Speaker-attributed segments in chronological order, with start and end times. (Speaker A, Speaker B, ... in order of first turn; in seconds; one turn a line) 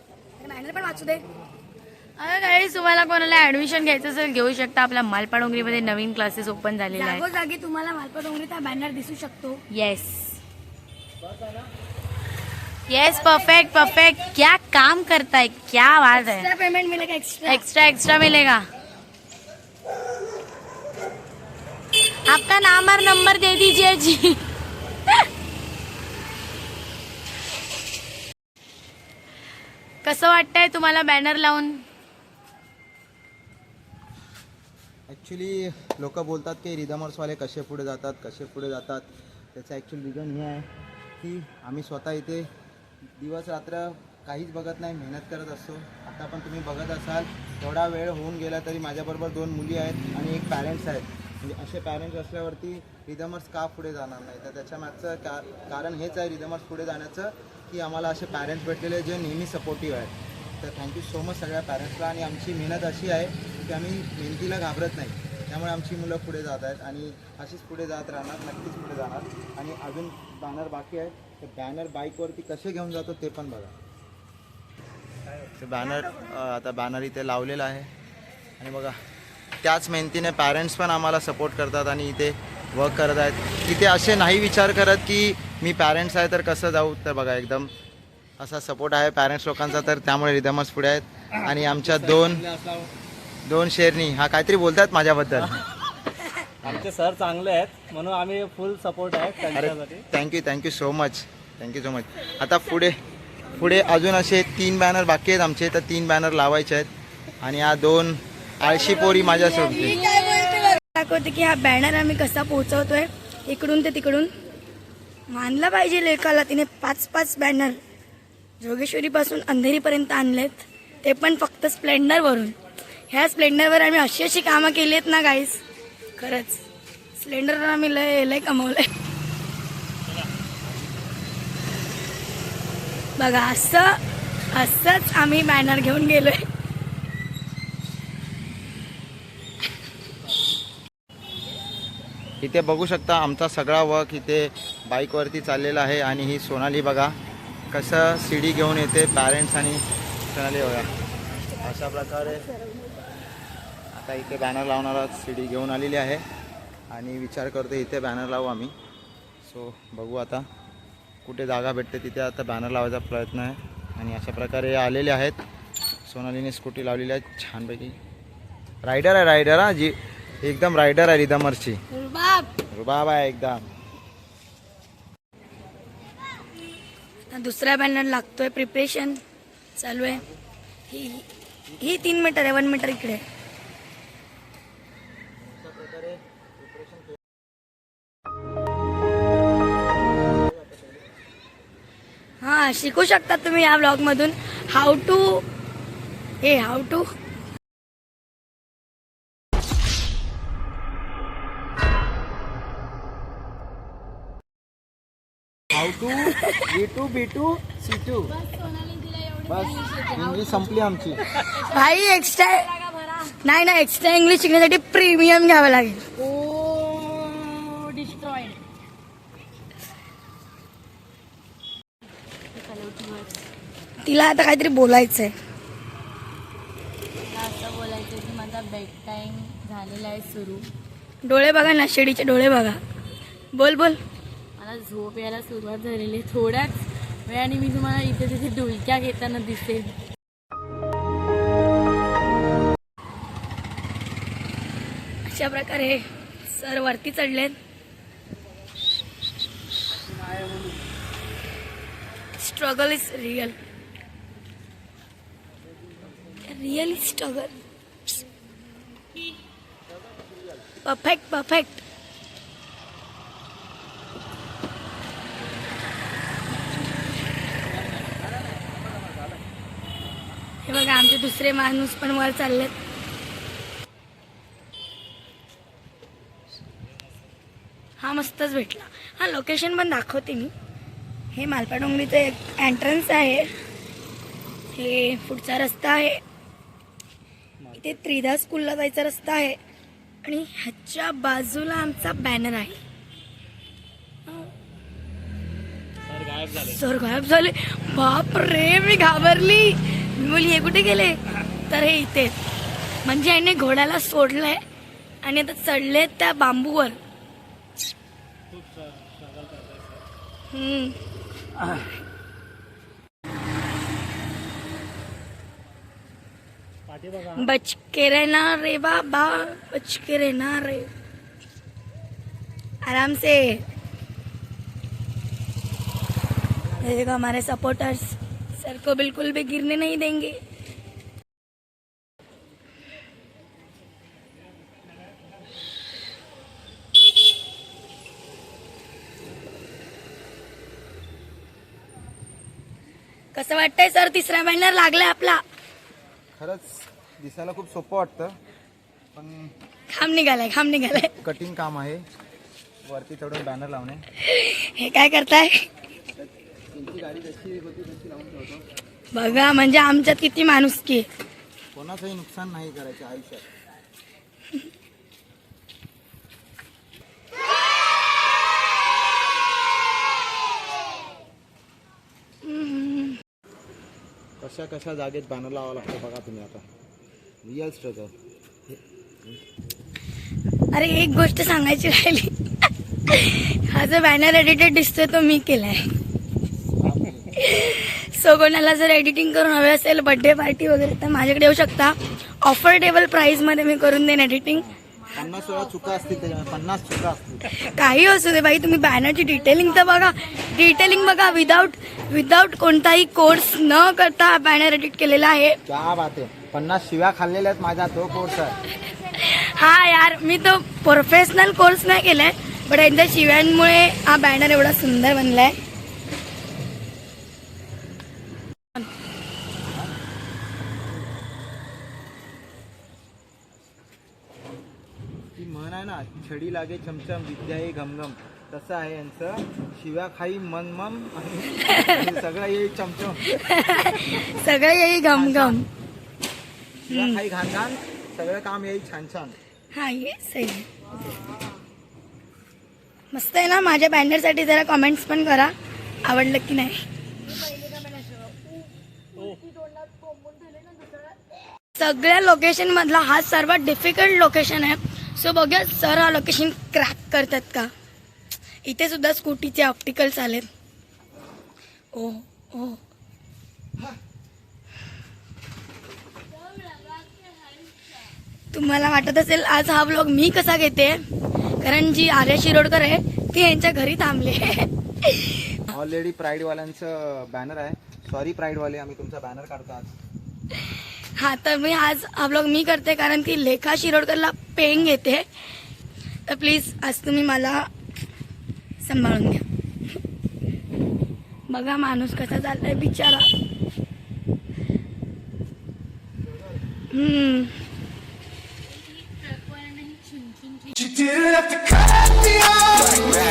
Speaker A: 0.4-1.2
Speaker B: 2.2-7.2
Speaker A: 6.9-9.6
Speaker B: 9.7-10.4
Speaker B: 12.9-16.5
Speaker A: 16.1-17.6
Speaker B: 17.4-18.7
Speaker B: 22.2-24.5
Speaker B: 30.0-31.8
Speaker C: 35.1-40.7
Speaker C: 41.2-42.5
Speaker C: 43.2-73.7
Speaker C: 75.6-77.9
Speaker C: 78.6-78.9
Speaker C: 79.6-87.7
Speaker C: 88.4-92.5
Speaker D: 91.7-92.9
Speaker C: 93.5-95.6
Speaker D: 96.6-100.0
Speaker C: 99.5-103.0
Speaker C: 103.5-106.9
Speaker C: 107.4-110.0
Speaker A: 109.1-114.3
Speaker A: 115.3-117.8
Speaker A: 118.6-122.5
Speaker A: 123.1-125.6
Speaker A: 126.2-128.9
Speaker A: 133.2-134.0
Speaker A: 134.5-136.4
Speaker C: 142.4-147.1
Speaker C: 147.7-150.9
Speaker C: 151.6-152.5
Speaker C: 153.9-156.2
Speaker C: 156.9-158.7
Speaker C: 159.4-160.4
Speaker C: 161.2-165.4
Speaker C: 166.1-167.9
Speaker C: 168.8-171.8
Speaker A: 171.9-172.5
Speaker C: 172.7-173.7
Speaker A: 177.3-179.2
Speaker A: 179.8-180.2
Speaker A: 180.9-181.2
Speaker A: 181.8-183.2
Speaker C: 185.5-187.2
Speaker C: 190.2-191.0
Speaker A: 192.4-195.4
Speaker A: 196.4-197.1
Speaker C: 205.7-208.3
Speaker B: 208.3-213.4
Speaker C: 209.5-211.2
Speaker A: 211.5-212.7
Speaker A: 213.4-216.0
Speaker B: 216.2-218.6
Speaker B: 222.5-223.5
Speaker A: 224.0-225.3
Speaker B: 227.2-230.7
Speaker A: 231.2-232.8
Speaker A: 233.5-234.0
Speaker B: 234.6-240.0
Speaker A: 245.2-247.5
Speaker A: 252.4-253.6
Speaker A: 256.4-257.6
Speaker A: 260.8-261.8
Speaker A: 270.6-272.7
Speaker A: 278.0-280.5
Speaker A: 281.3-283.5
Speaker A: 284.7-286.2
Speaker D: 287.6-288.0
Speaker A: 287.7-289.6
Speaker A: 290.2-292.8
Speaker D: 296.0-296.8
Speaker A: 296.7-302.4
Speaker A: 303.0-304.6
Speaker A: 305.2-307.0
Speaker D: 308.5-310.0
Speaker A: 310.5-311.0
Speaker D: 316.9-317.4
Speaker A: 317.3-320.9
Speaker A: 322.8-323.6
Speaker A: 326.7-330.4
Speaker A: 343.3-345.4
Speaker C: 346.4-348.4
Speaker C: 349.1-349.5
Speaker A: 349.9-351.1
Speaker C: 351.1-352.0
Speaker C: 352.8-354.1
Speaker A: 354.2-355.6
Speaker C: 356.1-358.6
Speaker A: 359.1-361.1
Speaker C: 361.7-363.4
Speaker A: 372.4-373.2
Speaker C: 374.4-376.6
Speaker C: 377.4-378.1
Speaker C: 378.7-379.4
Speaker A: 380.7-382.3
Speaker A: 383.1-385.9
Speaker C: 386.8-387.3
Speaker A: 387.3-394.7
Speaker C: 394.5-397.5
Speaker B: 394.9-396.7
Speaker A: 397.5-405.6
Speaker B: 399.3-401.7
Speaker C: 405.6-408.6
Speaker A: 408.9-415.6
Speaker C: 425.4-433.4
Speaker A: 433.4-435.6
Speaker C: 435.1-435.6
Speaker C: 436.9-439.4
Speaker A: 436.9-437.2
Speaker A: 439.7-440.7
Speaker B: 440.9-441.6
Speaker A: 443.1-445.5
Speaker A: 446.0-446.8
Speaker A: 447.4-447.8
Speaker D: 449.1-449.4
Speaker A: 451.7-457.7
Speaker A: 458.6-460.5
Speaker A: 461.9-462.8
Speaker A: 468.5-471.0
Speaker A: 471.6-475.6
Speaker C: 475.7-479.9
Speaker A: 481.1-485.2
Speaker A: 486.3-487.7
Speaker A: 488.8-489.4
Speaker A: 491.5-493.3
Speaker A: 496.9-497.5
Speaker B: 498.6-501.2